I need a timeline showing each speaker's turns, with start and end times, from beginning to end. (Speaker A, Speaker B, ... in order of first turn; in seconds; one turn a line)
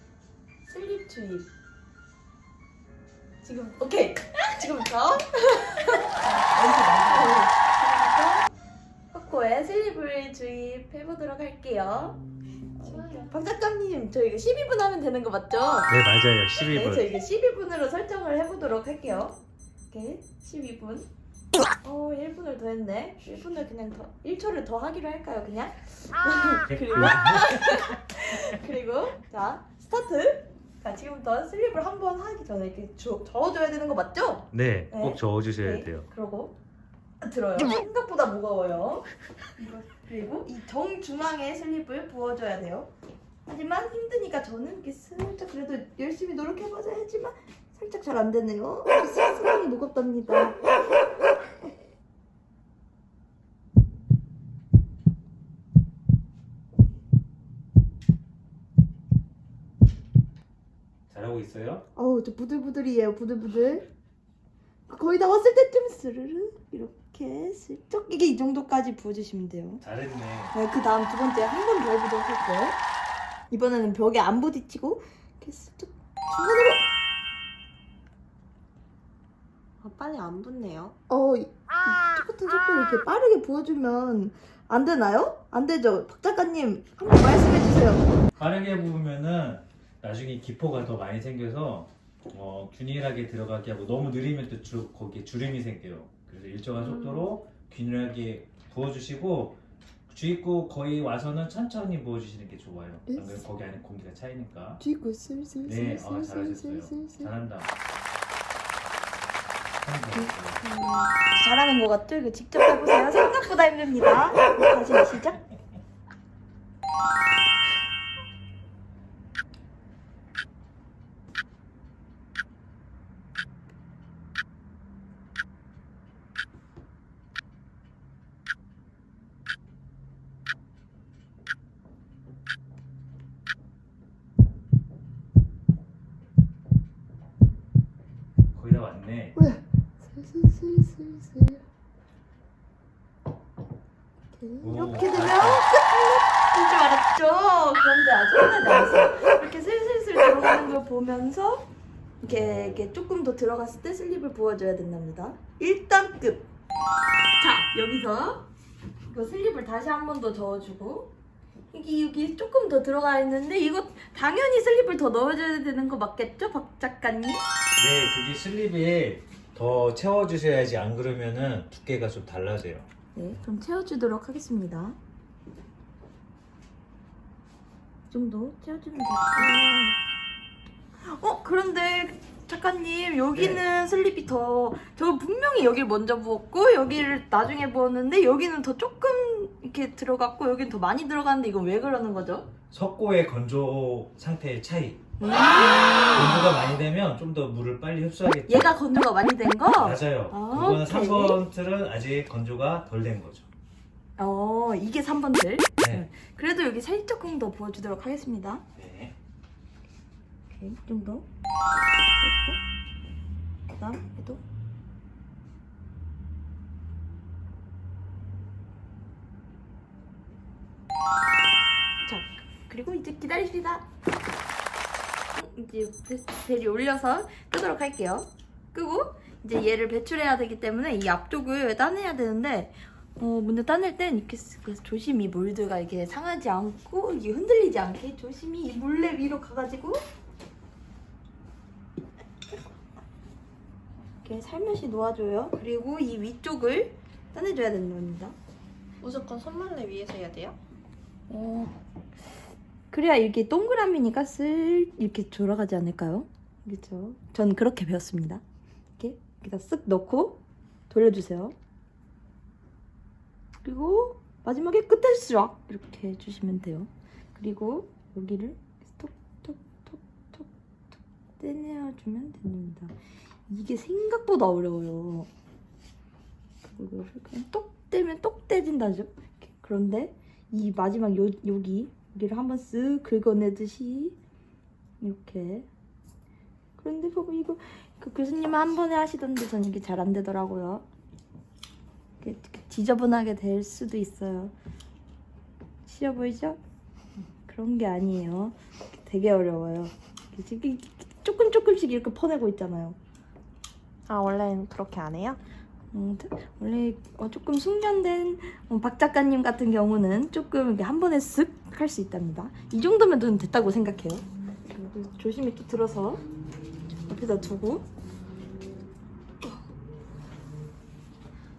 Speaker A: 0.7-1.4
Speaker A: 3.4-8.4
Speaker B: 6.3-7.4
Speaker A: 9.1-12.2
Speaker A: 12.8-15.9
Speaker C: 15.9-17.1
Speaker A: 16.6-19.4
Speaker A: 19.9-21.1
Speaker A: 21.8-36.5
Speaker C: 26.7-27.9
Speaker C: 34.5-36.1
Speaker A: 37.2-42.9
Speaker A: 43.5-50.6
Speaker C: 61.1-61.8
Speaker A: 62.0-63.9
Speaker A: 64.9-69.8
Speaker C: 69.8-70.5
Speaker A: 70.5-72.8
Speaker A: 73.5-76.9
Speaker B: 79.8-80.9
Speaker A: 81.1-88.1
Speaker C: 88.4-104.8
Speaker A: 104.9-105.7
Speaker C: 105.6-107.7
Speaker B: 105.8-106.7
Speaker C: 109.8-110.6
Speaker B: 110.7-111.1
Speaker A: 111.1-115.4
Speaker C: 138.5-139.4
Speaker A: 140.2-141.2
Speaker A: 144.4-151.7
Speaker C: 144.6-145.7
Speaker A: 152.2-156.4
Speaker C: 152.2-152.8
Speaker A: 157.3-158.4
Speaker A: 159.1-161.1
Speaker A: 161.7-167.4
Speaker C: 167.8-172.9
Speaker A: 173.1-175.0
Speaker A: 178.1-179.9
Speaker B: 179.4-179.8
Speaker A: 181.0-192.5
Speaker C: 183.3-183.6
Speaker C: 192.7-195.0
Speaker A: 195.2-196.3
Speaker C: 196.0-198.8
Speaker A: 198.5-201.4
Speaker C: 199.7-203.5
Speaker A: 204.2-208.6
Speaker C: 205.8-206.1
Speaker C: 208.7-209.1
Speaker A: 210.5-211.2
Speaker A: 212.2-212.6
Speaker A: 213.7-214.4
Speaker A: 222.0-223.8
Speaker A: 225.3-240.0
Speaker A: 244.2-248.3
Speaker B: 249.0-250.6
Speaker A: 251.3-251.8
Speaker A: 252.9-258.4
Speaker A: 259.0-260.4
Speaker A: 260.9-261.5
Speaker A: 263.6-272.9
Speaker A: 273.5-275.3
Speaker A: 276.6-284.1
Speaker A: 285.0-285.7
Speaker A: 286.8-290.8
Speaker A: 292.2-294.5
Speaker A: 295.8-296.6
Speaker A: 297.5-303.0
Speaker B: 304.1-305.4
Speaker A: 305.9-316.2
Speaker A: 317.1-317.9